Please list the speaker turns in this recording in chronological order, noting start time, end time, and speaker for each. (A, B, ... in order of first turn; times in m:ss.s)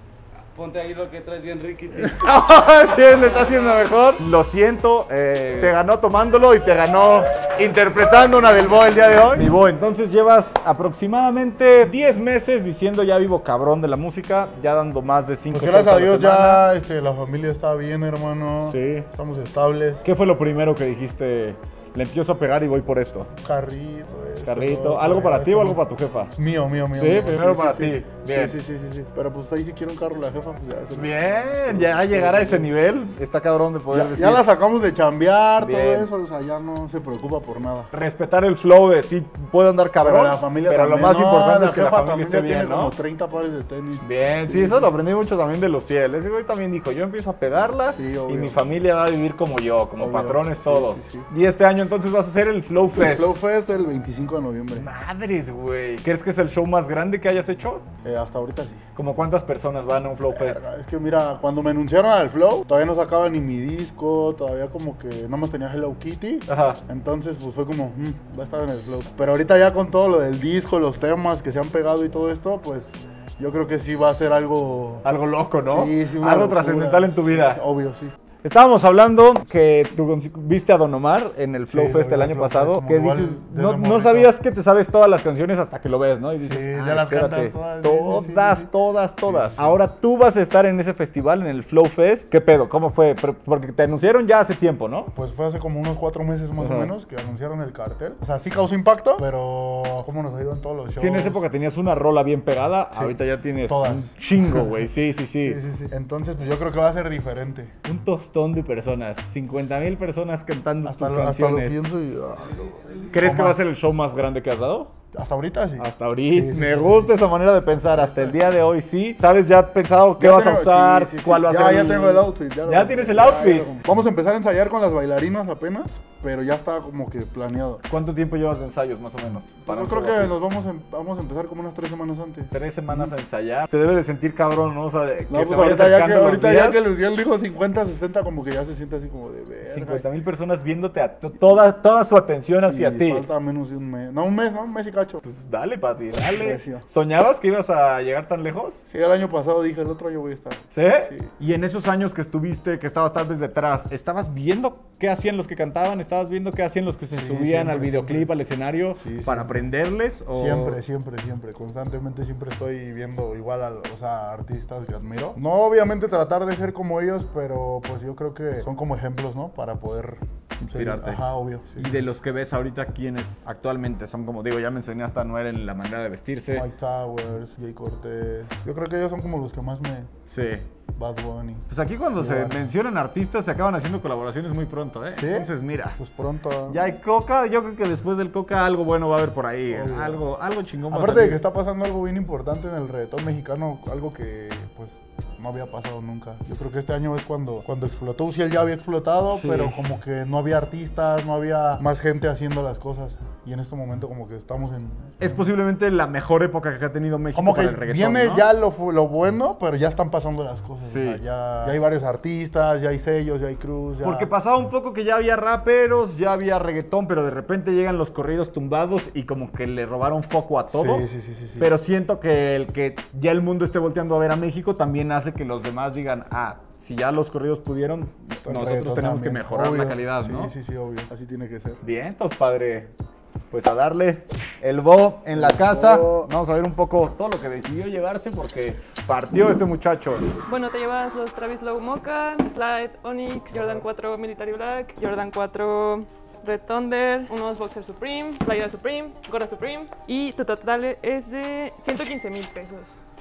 0:00.5-0:03.9 A
0:02.1-0:16.6 B
0:15.5-0:20.0 C
0:18.7-0:19.1 B
0:20.0-0:23.3 B
0:23.4-0:25.8 C
0:24.4-0:26.3 B
0:26.3-0:32.7 C
0:27.0-0:28.5 B
0:30.9-0:34.4 B
0:33.9-0:37.9 C
0:35.6-0:36.1 B
0:37.9-0:42.9 B
0:40.0-0:44.9 C
0:44.0-0:53.3 B
0:47.9-0:48.6 C
0:50.0-0:51.3 C
0:53.0-0:54.8 C
0:54.7-0:57.8 B
0:58.0-0:58.8 C
0:58.9-1:00.6 B
1:00.3-1:15.0 C
1:06.5-1:06.8 B
1:15.0-1:17.6 B
1:15.6-1:18.1 C
1:18.4-1:35.1 B
1:21.7-1:24.3 C
1:26.4-1:28.7 C
1:29.3-1:29.8 C
1:35.1-1:41.4 C
1:36.6-1:36.9 B
1:41.0-1:45.6 B
1:42.9-1:44.8 C
1:45.4-1:47.7 C
1:47.8-1:51.8 B
1:50.8-1:53.6 C
1:53.1-1:54.9 B
1:55.1-1:57.1 C
1:55.8-2:03.7 B
1:57.9-1:58.4 C
2:00.2-2:07.8 C
2:07.9-2:10.3 B
2:09.6-2:13.1 C
2:12.5-2:16.8 B
2:15.3-2:20.0 C
2:19.6-2:23.2 B
2:22.7-2:25.2 C
2:25.2-2:28.8 B
2:26.4-2:26.8 C
2:28.8-2:31.3 C
2:30.7-2:40.8 B
2:37.1-2:38.4 C
2:39.0-2:39.6 C
2:40.3-2:52.0 C
2:50.6-2:51.2 B
2:51.8-2:56.7 B
2:56.5-3:00.1 C
3:00.3-3:00.7 B
3:00.9-3:02.6 C
3:01.7-3:06.0 B
3:05.1-3:06.8 C
3:06.7-3:11.4 B
3:09.7-3:10.2 C
3:10.9-3:25.5 C
3:19.3-3:19.8 B
3:25.2-3:28.5 B
3:27.3-3:34.3 C
3:30.8-3:31.7 B
3:34.0-3:41.0 B
3:40.7-3:41.7 C
3:41.6-3:50.5 B
3:48.4-3:51.8 C
3:51.8-3:52.9 B
3:53.5-4:00.3 B
3:55.3-3:56.3 C
4:00.4-4:13.0 D
4:03.5-4:03.9 C